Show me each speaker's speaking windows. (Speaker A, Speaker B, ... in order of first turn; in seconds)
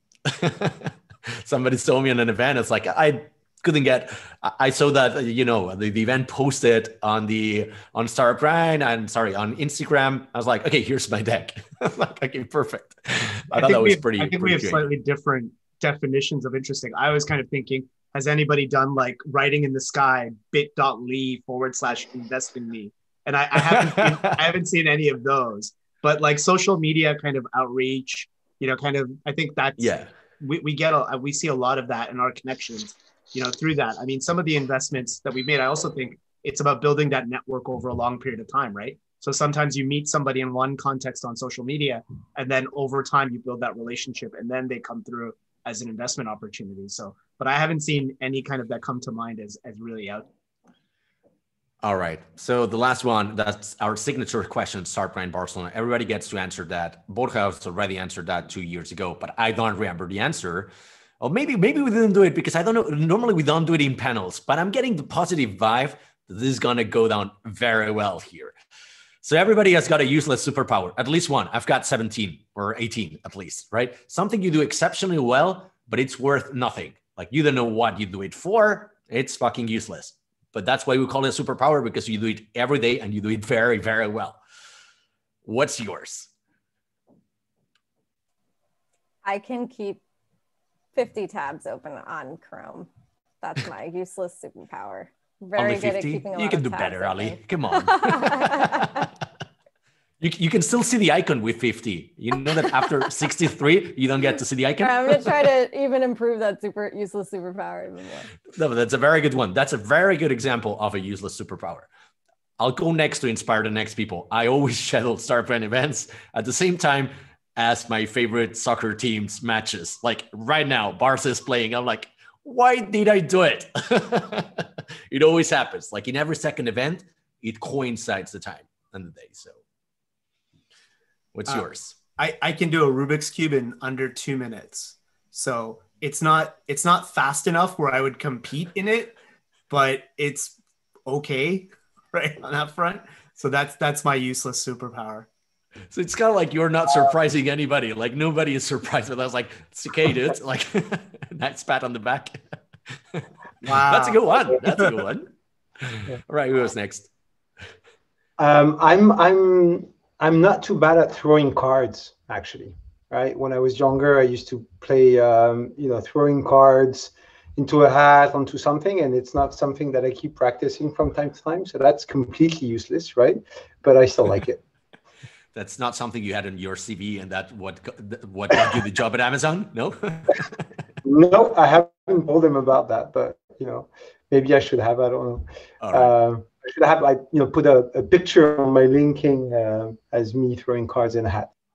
Speaker A: 0.2-14.8, 23.8-24.1, 29.8-30.1, 51.8-68.5, 69.2-84.4, 85.5-86.3, 95.6-99.1, 100.2-105.4, 108.5-111.9, 112.6-129.6, 131.3-132.0, 145.9-152.4, 152.9-157.1, 175.5-180.5, 185.8-186.1
Speaker B: 13.5-50.3, 131.5-139.2, 139.7-145.3, 153.6-154.9
Speaker C: 89.2-90.0, 91.0-92.9, 93.4-99.0, 104.8-108.3
Speaker D: 158.4-174.6, 181.0-191.5